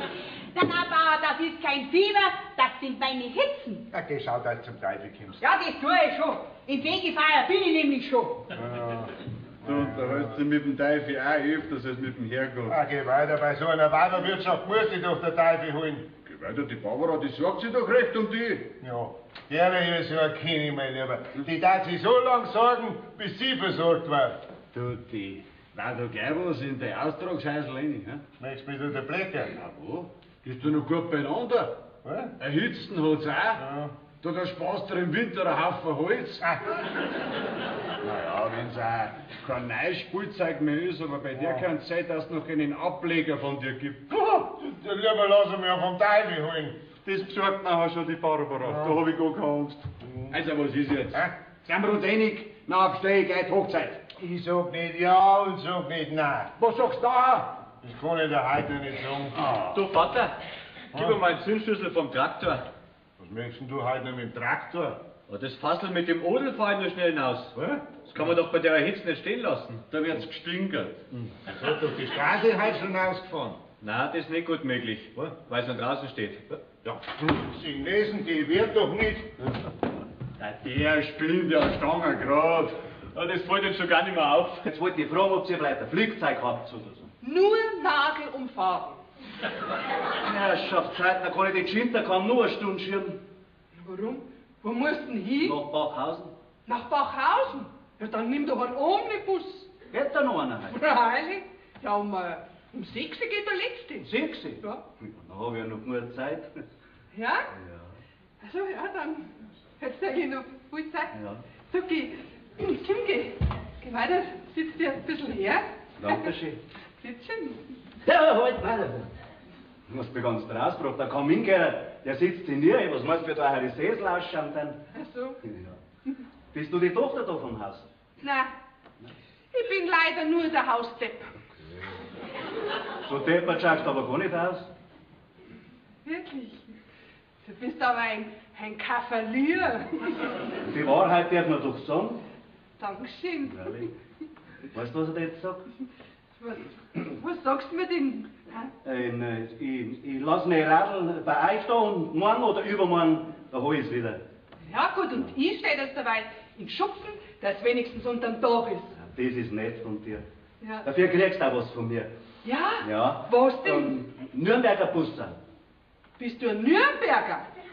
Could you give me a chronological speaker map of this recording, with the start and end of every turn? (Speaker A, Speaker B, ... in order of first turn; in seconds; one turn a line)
Speaker A: 0.5-3.9
Speaker B: 3.9-5.4
Speaker A: 5.4-8.4
Speaker B: 8.5-10.4
Speaker C: 9.6-12.8
Speaker B: 12.7-16.1
Speaker C: 16.2-18.7
Speaker B: 18.8-24.4
Speaker C: 24.7-28.2
Speaker B: 28.4-29.5
Speaker C: 29.6-31.7
Speaker B: 32.0-32.4
Speaker C: 32.4-33.6
Speaker B: 33.6-33.9
Speaker C: 34.2-36.4
Speaker B: 36.4-36.7
Speaker C: 38.0-44.3
Speaker B: 41.3-41.6
Speaker B: 44.3-46.8
Speaker C: 47.0-54.0
Speaker B: 48.6-49.0
Speaker B: 50.0-50.4
Speaker B: 54.2-56.5
Speaker C: 56.6-57.6
Speaker B: 57.8-59.4
Speaker C: 59.4-59.8
Speaker D: 59.7-60.4
Speaker D: 60.9-62.6
Speaker B: 63.2-65.0
Speaker D: 65.3-69.8
Speaker C: 69.9-71.1
Speaker B: 71.5-73.6
Speaker D: 73.8-76.4
Speaker B: 76.8-79.3
Speaker C: 80.4-82.8
Speaker D: 83.2-84.7
Speaker E: 84.7-87.1
Speaker F: 87.2-89.0
Speaker E: 90.2-93.2
Speaker F: 93.8-95.6
Speaker E: 95.4-96.3
Speaker F: 96.7-99.7
Speaker E: 99.9-100.8
Speaker F: 100.7-104.1
Speaker E: 104.0-106.6
Speaker F: 107.1-107.5
Speaker E: 107.5-108.0
Speaker F: 108.4-111.2
Speaker E: 111.1-111.4
Speaker F: 111.7-116.3
Speaker E: 116.0-116.6
Speaker F: 117.0-117.6
Speaker E: 118.0-119.1
Speaker E: 119.9-124.8
Speaker F: 124.9-125.4
Speaker E: 125.4-125.8
Speaker E: 126.5-127.9
Speaker F: 128.2-128.5
Speaker F: 129.5-131.2
Speaker E: 133.1-134.7
Speaker F: 136.1-136.6
Speaker F: 137.4-140.1
Speaker E: 140.6-142.2
Speaker F: 142.8-143.9
Speaker E: 143.5-143.9
Speaker E: 144.7-145.7
Speaker F: 146.4-148.7
Speaker E: 148.8-154.2
Speaker F: 154.7-158.9
Speaker E: 158.9-160.2
Speaker F: 160.6-160.9
Speaker E: 160.8-162.1
Speaker F: 162.4-164.0
Speaker E: 162.8-165.4
Speaker F: 166.2-167.5